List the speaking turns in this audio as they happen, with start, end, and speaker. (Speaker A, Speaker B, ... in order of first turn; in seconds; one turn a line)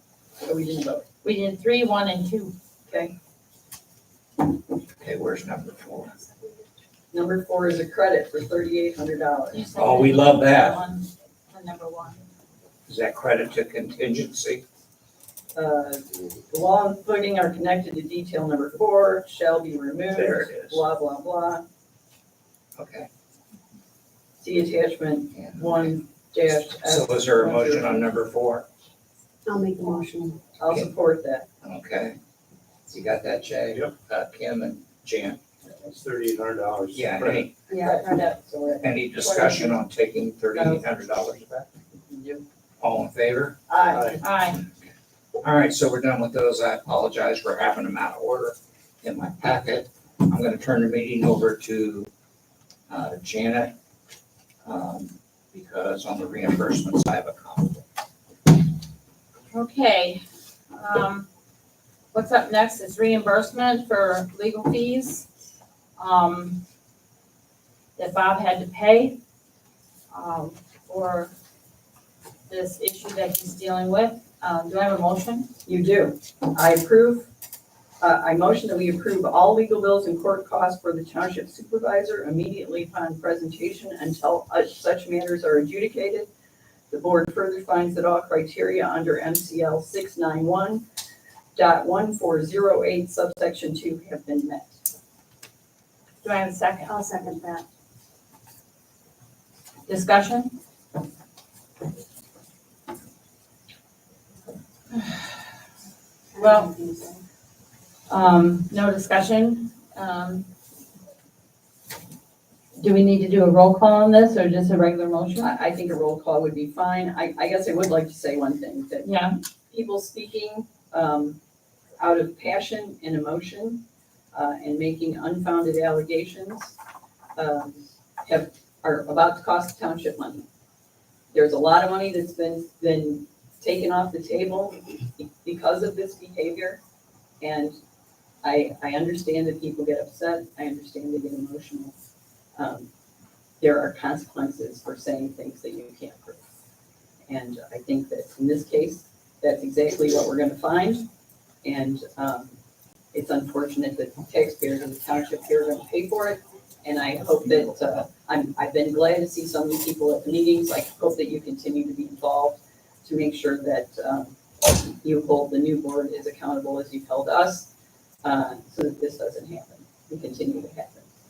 Speaker A: 0.4-1.1
Speaker B: 1.2-2.5
Speaker A: 2.9-3.1
Speaker C: 5.0-6.2
Speaker A: 7.1-9.7
Speaker B: 9.5-12.2
Speaker C: 9.8-10.8
Speaker C: 12.9-14.6
Speaker A: 15.6-21.6
Speaker C: 20.1-20.8
Speaker C: 22.8-23.1
Speaker A: 24.4-28.1
Speaker C: 25.3-25.9
Speaker C: 26.7-28.7
Speaker D: 29.5-30.4
Speaker A: 30.6-31.5
Speaker C: 31.6-32.2
Speaker C: 32.9-35.4
Speaker E: 35.8-37.5
Speaker C: 36.9-37.5
Speaker D: 37.7-38.2
Speaker A: 37.7-39.8
Speaker C: 38.8-41.7
Speaker A: 40.5-40.8
Speaker A: 42.1-42.5
Speaker C: 42.8-43.6
Speaker A: 43.7-44.2
Speaker E: 43.9-44.2
Speaker B: 44.2-44.6
Speaker C: 45.4-52.1
Speaker C: 52.9-53.7
Speaker C: 54.6-57.9
Speaker B: 59.5-61.3
Speaker B: 62.1-65.3
Speaker B: 66.0-66.6
Speaker B: 68.0-69.2
Speaker B: 70.1-71.3
Speaker B: 72.5-75.5
Speaker A: 75.7-77.3
Speaker A: 78.0-86.3
Speaker A: 86.9-90.8
Speaker A: 91.6-94.7
Speaker B: 96.2-97.0
Speaker D: 96.9-97.7
Speaker B: 99.9-100.6
Speaker B: 104.9-105.4
Speaker D: 106.3-107.2
Speaker B: 106.4-106.7
Speaker B: 108.1-110.5
Speaker B: 112.8-115.5
Speaker A: 115.4-119.1
Speaker B: 119.0-119.3
Speaker A: 119.7-121.4
Speaker A: 122.0-126.8
Speaker A: 127.4-130.5
Speaker A: 131.3-136.8
Speaker A: 137.4-137.8
Speaker A: 138.4-141.9
Speaker A: 142.6-142.9
Speaker A: 143.6-146.4
Speaker A: 147.3-151.1
Speaker A: 151.6-152.6
Speaker A: 153.1-167.7
Speaker A: 168.2-171.1